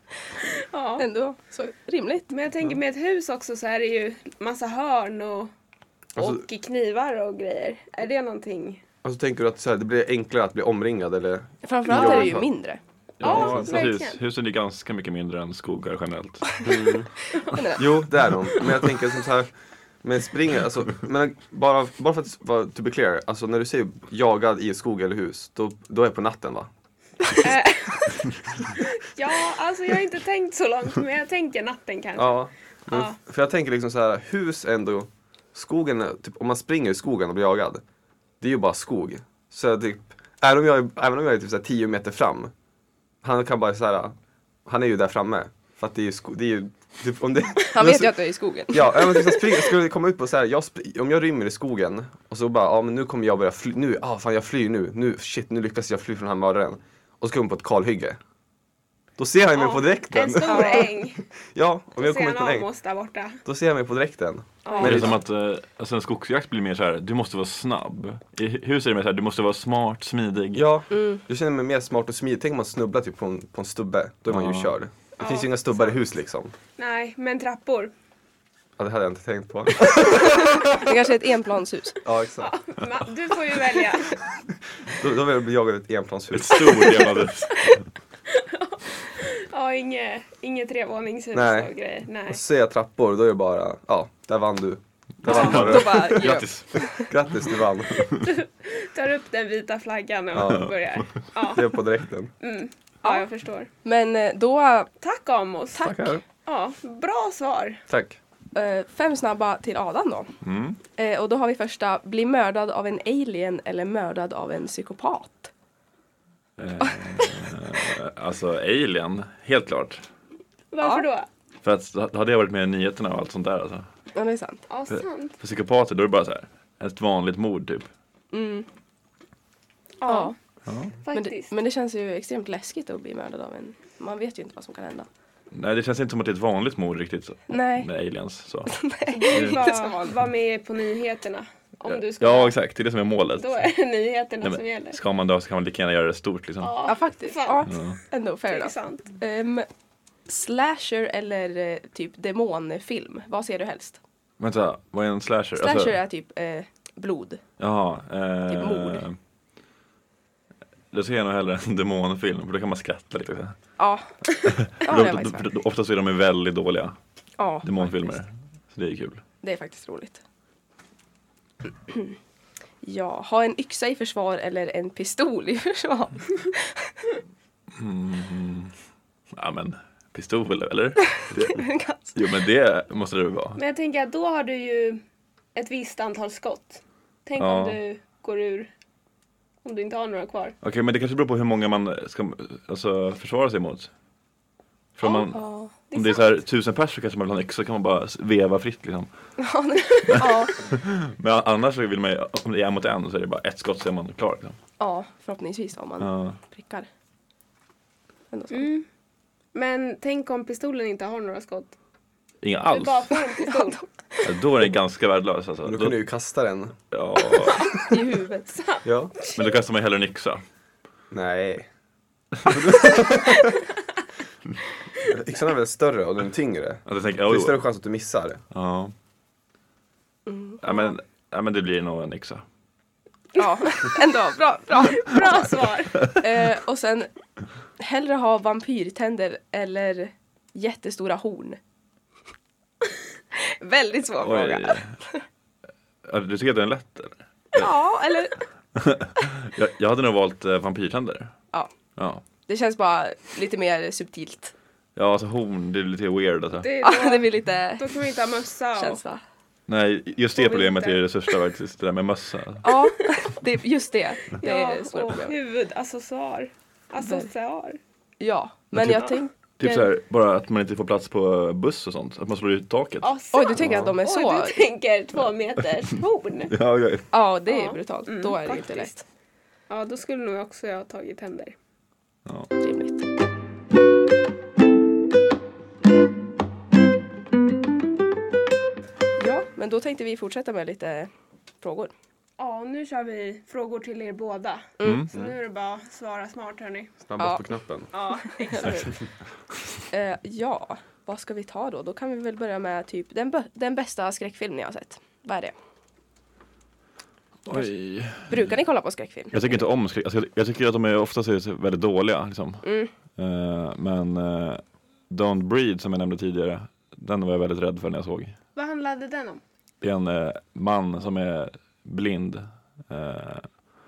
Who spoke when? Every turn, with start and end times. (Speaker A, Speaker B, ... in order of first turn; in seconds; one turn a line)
Speaker A: 0.6-1.0
Speaker B: 1.0-2.3
Speaker A: 2.3-5.5
Speaker C: 6.2-6.4
Speaker A: 6.2-8.8
Speaker C: 9.0-12.5
Speaker B: 11.6-12.8
Speaker A: 11.9-12.3
Speaker D: 13.2-16.7
Speaker A: 13.2-14.2
Speaker C: 13.2-13.7
Speaker C: 16.6-17.1
Speaker B: 17.5-17.8
Speaker C: 17.7-19.5
Speaker C: 20.0-26.7
Speaker A: 27.4-33.1
Speaker C: 32.2-37.8
Speaker C: 38.4-42.5
Speaker C: 43.2-44.1
Speaker C: 44.6-58.2
Speaker B: 47.7-49.5
Speaker C: 59.2-62.7
Speaker A: 59.5-61.2
Speaker B: 60.4-60.9
Speaker A: 62.0-63.4
Speaker C: 63.4-65.2
Speaker A: 64.6-65.2
Speaker D: 64.8-70.7
Speaker C: 70.5-76.5
Speaker B: 70.9-71.2
Speaker D: 74.3-74.7
Speaker A: 75.2-76.0
Speaker A: 76.8-77.9
Speaker C: 78.8-80.8
Speaker B: 80.6-82.0
Speaker C: 82.0-82.5
Speaker A: 82.4-84.2
Speaker C: 84.9-87.0
Speaker D: 86.3-87.8
Speaker A: 88.3-92.4
Speaker C: 91.3-91.7
Speaker C: 92.3-98.1
Speaker B: 95.3-97.1
Speaker A: 95.3-95.5
Speaker D: 95.3-96.7
Speaker A: 98.0-101.7
Speaker C: 100.3-100.7
Speaker C: 101.5-102.3
Speaker A: 102.4-103.7
Speaker B: 103.8-104.9
Speaker A: 105.0-107.8
Speaker C: 105.7-106.2
Speaker C: 107.9-108.2
Speaker B: 108.5-110.3
Speaker D: 110.4-110.8
Speaker B: 111.0-115.5
Speaker D: 116.6-120.0
Speaker B: 116.8-117.2
Speaker A: 120.7-121.3
Speaker D: 121.6-123.9
Speaker B: 124.1-124.6
Speaker A: 124.7-125.4
Speaker D: 124.9-127.9
Speaker B: 128.3-128.7
Speaker A: 130.0-130.3
Speaker B: 130.0-130.3
Speaker D: 130.7-130.9
Speaker A: 131.0-131.5
Speaker B: 131.1-135.1
Speaker D: 135.5-139.6
Speaker B: 137.5-137.9
Speaker B: 138.7-140.1
Speaker A: 139.1-142.6
Speaker D: 141.9-143.6
Speaker A: 143.4-145.0
Speaker D: 144.4-146.7
Speaker A: 146.6-147.6
Speaker B: 146.8-149.7
Speaker D: 147.6-148.0
Speaker A: 148.5-149.0
Speaker B: 150.3-154.0
Speaker D: 154.4-156.0
Speaker B: 155.6-157.4
Speaker D: 157.6-159.2
Speaker B: 158.5-159.0
Speaker D: 160.9-163.6
Speaker B: 163.8-164.1
Speaker D: 164.4-167.0
Speaker B: 164.7-165.4
Speaker B: 167.4-168.2
Speaker D: 167.6-169.2
Speaker B: 169.4-170.2
Speaker B: 171.9-172.2
Speaker B: 172.8-177.0
Speaker D: 177.7-178.7
Speaker D: 179.3-183.6
Speaker B: 181.3-182.2
Speaker A: 183.6-185.0
Speaker A: 185.5-188.7
Speaker D: 187.4-187.8
Speaker A: 189.6-190.6
Speaker D: 190.6-193.9
Speaker D: 195.0-199.1
Speaker B: 195.0-195.7
Speaker A: 195.9-196.2
Speaker B: 199.4-200.5
Speaker D: 200.1-204.6
Speaker B: 204.8-206.9
Speaker D: 206.0-206.4
Speaker B: 208.3-208.7
Speaker A: 208.5-208.8
Speaker A: 209.5-211.8
Speaker D: 212.4-213.1
Speaker A: 212.7-213.8
Speaker B: 213.4-213.8
Speaker D: 214.2-216.0
Speaker C: 215.6-216.8
Speaker D: 216.9-217.8
Speaker A: 217.3-217.8
Speaker B: 217.9-218.5
Speaker A: 218.5-219.5
Speaker C: 218.8-219.1
Speaker D: 219.3-220.4
Speaker C: 221.1-221.7
Speaker C: 222.4-223.5
Speaker C: 225.0-228.4
Speaker D: 226.8-227.6
Speaker D: 228.5-228.9
Speaker B: 230.3-230.9
Speaker D: 230.6-232.4
Speaker B: 233.4-235.4
Speaker A: 234.8-236.1
Speaker B: 236.1-237.1
Speaker B: 237.8-241.6
Speaker B: 243.3-245.2
Speaker D: 244.2-244.9
Speaker D: 246.0-247.7
Speaker B: 247.5-248.4
Speaker D: 248.8-251.3
Speaker D: 252.0-252.2
Speaker B: 252.5-254.5
Speaker D: 254.9-256.7
Speaker A: 256.6-259.0
Speaker B: 256.8-257.9
Speaker B: 258.8-259.2
Speaker D: 259.7-262.6
Speaker A: 260.4-261.4
Speaker B: 262.6-265.3
Speaker A: 264.4-267.8
Speaker B: 267.0-267.3
Speaker B: 268.2-269.9
Speaker D: 268.8-269.1
Speaker D: 269.6-273.8
Speaker A: 273.0-276.5
Speaker B: 273.3-274.6
Speaker C: 273.6-273.9
Speaker D: 276.5-277.1
Speaker B: 277.1-279.0
Speaker A: 277.5-279.0
Speaker A: 279.7-281.5
Speaker B: 282.6-283.0
Speaker B: 289.2-291.9
Speaker A: 292.4-296.9
Speaker B: 294.8-295.1
Speaker D: 294.8-295.1
Speaker C: 297.0-297.9
Speaker A: 297.9-299.0
Speaker B: 298.4-298.8
Speaker B: 299.9-305.5
Speaker D: 307.4-308.5
Speaker B: 307.5-309.6
Speaker D: 309.3-318.3
Speaker B: 312.6-312.9
Speaker A: 318.6-319.4
Speaker D: 319.8-323.5